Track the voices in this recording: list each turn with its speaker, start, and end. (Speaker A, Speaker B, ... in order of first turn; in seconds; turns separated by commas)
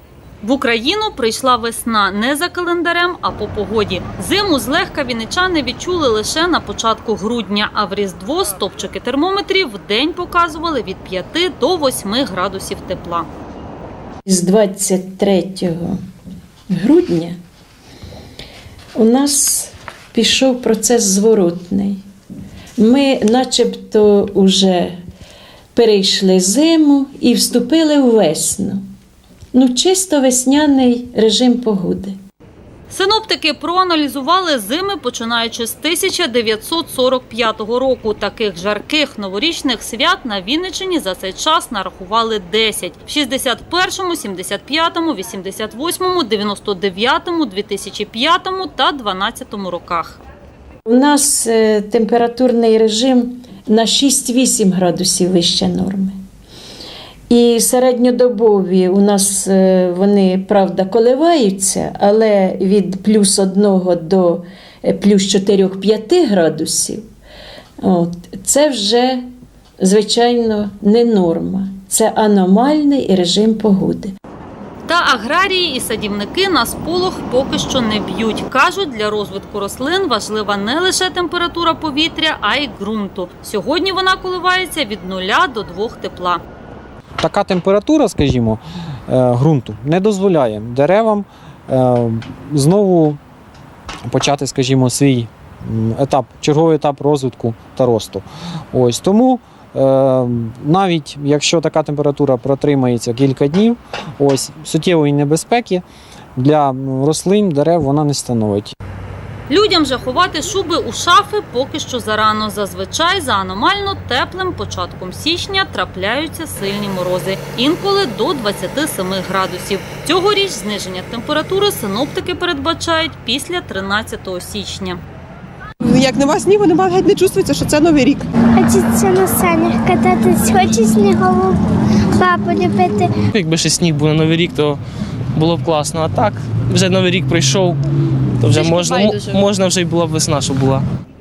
Speaker A: 0.4-13.3, Speaker B: 14.3-16.0, Speaker B: 16.7-17.4, Speaker B: 19.0-22.0, Speaker B: 22.8-25.0, Speaker B: 25.8-28.8, Speaker B: 29.5-32.1, Speaker A: 32.9-50.2, Speaker B: 50.9-56.1, Speaker B: 57.3-67.0, Speaker B: 67.8-69.2, Speaker B: 69.8-74.1, Speaker A: 74.9-86.4, Speaker C: 87.2-93.2, Speaker C: 94.0-105.8, Speaker C: 106.4-108.7, Speaker A: 109.5-125.0, Speaker D: 125.8-128.3, Speaker E: 128.6-131.6, Speaker E: 132.2-133.1, Speaker F: 133.3-134.8, Speaker F: 135.3-137.8, Speaker F: 138.4-140.8